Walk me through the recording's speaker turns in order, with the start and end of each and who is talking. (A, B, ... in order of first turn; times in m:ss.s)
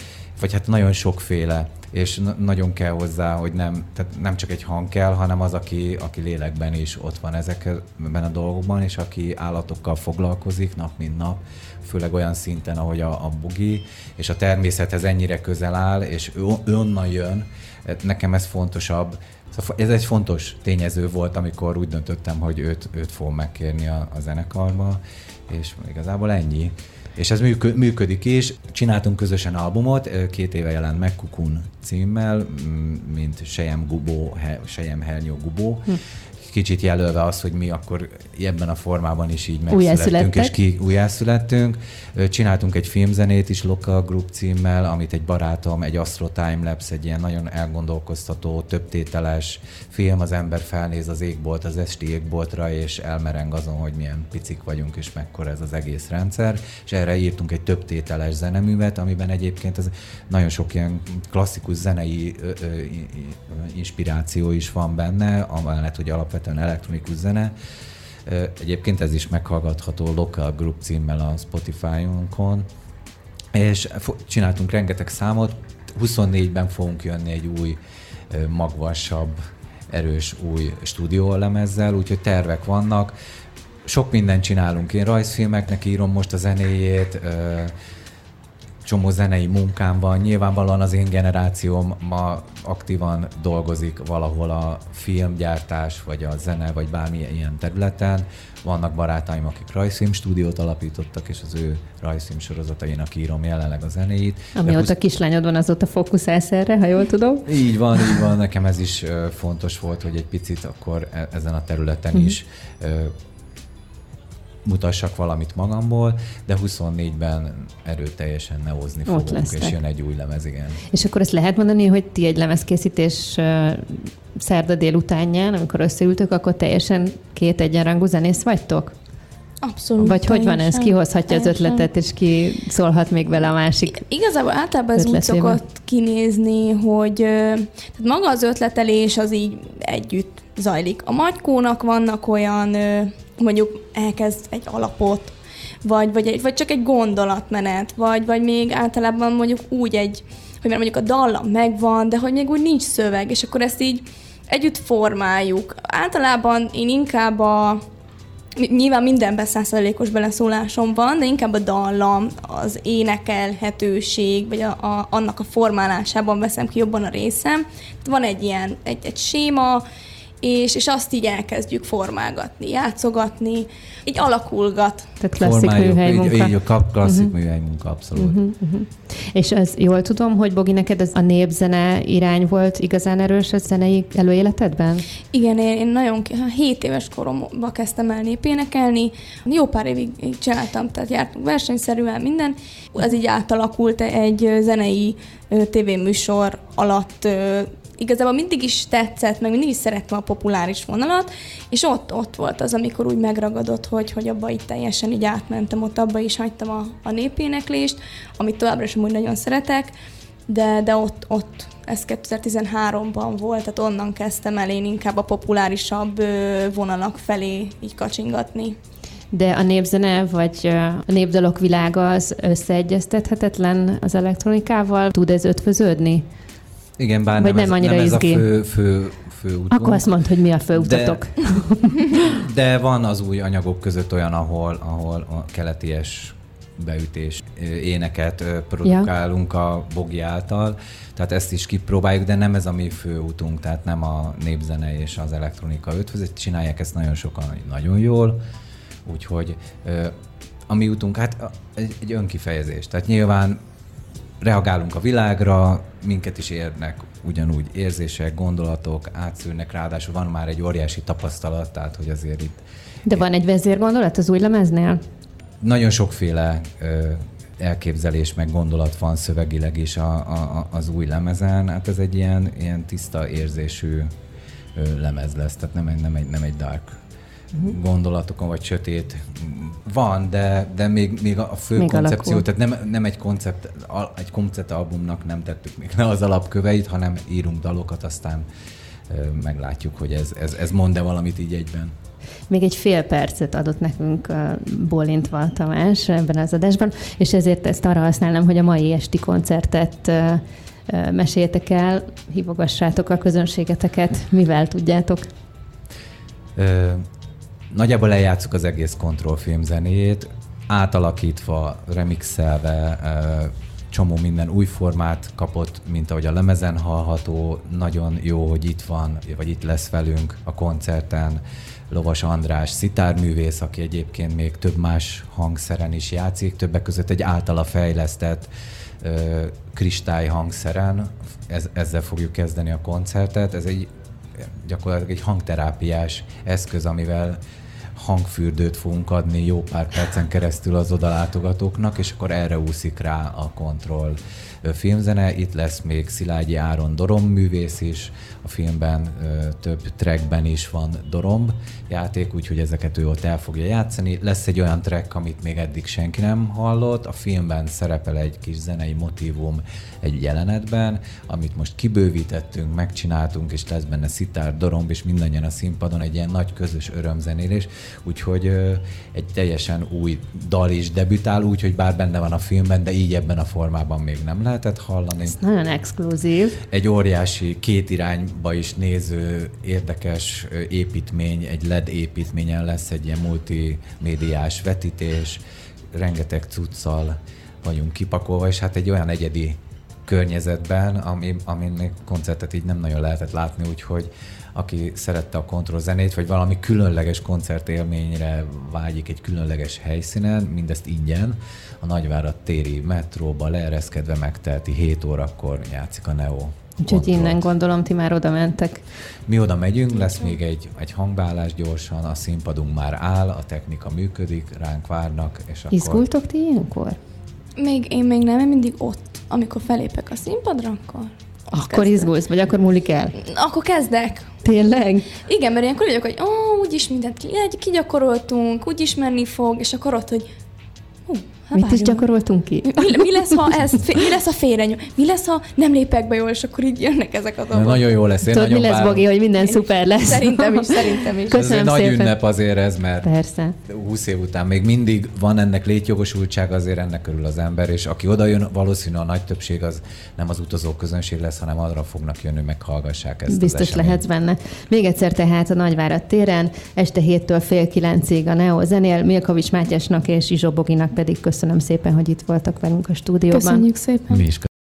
0:00.4-1:07.5 A
0:39.7-0:40.5 B
1:08.3-1:12.7 A
1:13.5-1:17.8 A
1:18.3-1:23.1 A
1:23.9-1:27.7 A
1:28.8-1:44.9 A
1:44.6-1:47.5 B
1:47.5-1:53.1 A
1:54.6-2:00.8 A
1:59.1-1:59.8 B
2:00.9-2:09.0 B
2:09.6-2:11.9 C
2:10.0-2:14.0 B
2:13.9-2:37.8 C
2:15.0-2:15.6 B
2:38.6-2:49.8 C
2:50.4-2:55.1 C
2:55.2-2:57.3 B
2:55.4-2:58.4 A
2:58.2-3:05.1 B
3:05.3-3:29.9 C
3:30.5-3:38.8 C
3:39.3-3:46.3 B
3:47.0-3:50.1 A
3:47.4-3:48.4 B
3:49.7-3:52.2 B
3:50.7-3:51.5 A
3:52.1-4:08.4 A
4:09.0-4:10.1 A
4:10.7-4:13.6 A
4:14.4-4:22.6 A
4:23.1-4:25.0 B
4:25.6-4:34.1 A
4:34.8-4:37.0 A
4:37.6-4:48.5 A
4:41.8-4:42.4 B
4:49.1-4:51.9 A
4:52.5-5:05.3 B
5:06.6-5:07.0 A
5:07.7-5:28.5 A
5:29.0-5:37.4 A
5:38.0-6:15.4 A
6:15.3-6:16.6 B
6:16.7-6:25.4 A
6:25.9-6:47.5 A
6:46.8-6:48.8 B
6:49.3-6:56.0 A
6:55.7-6:57.0 B
6:57.6-7:02.1 C
7:01.5-7:03.2 B
7:03.2-7:04.4 C
7:04.4-7:05.1 B
7:05.2-7:10.3 C
7:11.1-7:12.1 C
7:11.6-7:13.5 B
7:12.6-7:17.8 C
7:17.5-7:19.1 A
7:18.2-7:22.2 B
7:19.4-7:21.4 C
7:21.3-7:23.1 A
7:23.0-7:23.6 B
7:23.6-7:34.0 A
7:33.3-7:43.6 B
7:43.3-7:44.2 C
7:44.1-7:44.5 A